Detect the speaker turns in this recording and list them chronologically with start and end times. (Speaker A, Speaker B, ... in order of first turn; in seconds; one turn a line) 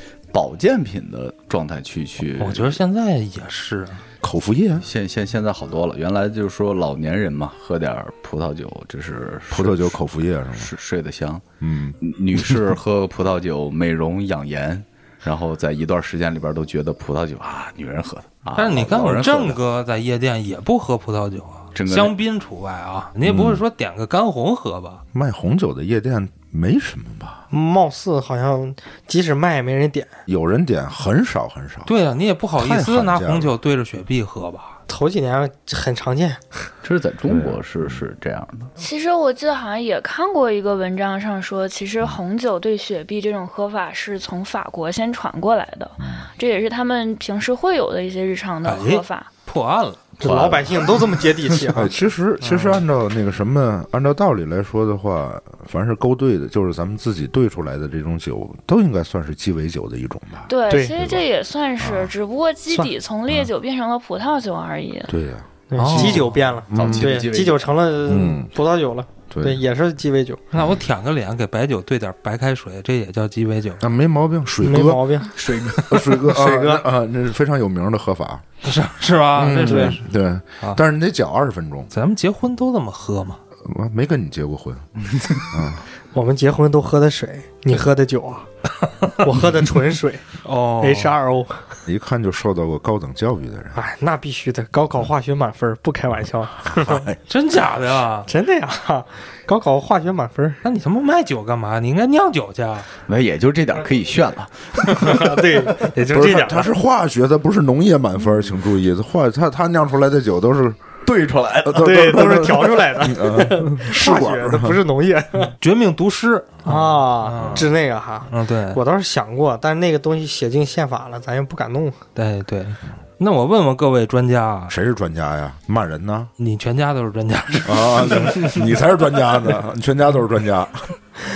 Speaker A: 0.3-2.8
Speaker B: 2.4-4.0
Speaker C: 4.2-4.8
Speaker A: 4.8-9.9
Speaker C: 9.5-10.7
Speaker A: 10.6-11.4
Speaker C: 11.6-12.6
Speaker A: 12.0-19.6
Speaker B: 18.5-25.0
Speaker A: 21.7-22.1
Speaker C: 23.2-23.6
Speaker C: 25.1-27.4
Speaker D: 27.5-30.1
Speaker C: 30.3-31.9
Speaker B: 31.9-34.8
Speaker C: 32.6-33.5
Speaker D: 34.9-36.7
Speaker A: 36.8-38.7
Speaker C: 37.3-38.0
Speaker E: 38.8-49.3
Speaker C: 46.0-46.3
Speaker B: 48.6-50.0
Speaker A: 50.2-51.1
Speaker D: 50.2-51.9
Speaker C: 51.7-61.2
Speaker B: 52.4-52.8
Speaker E: 60.5-65.1
Speaker D: 60.7-61.0
Speaker C: 61.8-62.1
Speaker C: 65.1-67.2
Speaker D: 65.7-70.4
Speaker B: 65.8-66.3
Speaker A: 66.7-67.7
Speaker C: 68.0-68.5
Speaker C: 69.3-69.6
Speaker B: 70.5-73.8
Speaker C: 73.8-75.2
Speaker D: 74.6-75.4
Speaker A: 75.3-76.2
Speaker C: 75.8-78.4
Speaker D: 75.9-76.8
Speaker B: 78.6-80.0
Speaker C: 79.3-81.9
Speaker D: 79.6-80.0
Speaker B: 81.9-83.4
Speaker C: 83.6-84.9
Speaker C: 85.4-85.8
Speaker D: 86.1-88.5
Speaker D: 89.1-90.3
Speaker B: 90.4-91.1
Speaker D: 90.8-91.8
Speaker C: 91.8-93.8
Speaker D: 93.7-97.0
Speaker B: 97.3-98.3
Speaker D: 98.3-100.6
Speaker B: 100.6-102.9
Speaker A: 103.1-105.3
Speaker D: 104.9-106.7
Speaker C: 106.1-110.9
Speaker A: 111.0-111.9
Speaker C: 111.6-114.8
Speaker D: 111.8-115.5
Speaker B: 115.6-117.7
Speaker D: 116.6-122.0
Speaker C: 117.4-117.7
Speaker B: 118.3-118.8
Speaker B: 122.1-124.7
Speaker C: 124.7-126.3
Speaker B: 126.4-128.6
Speaker C: 127.6-131.0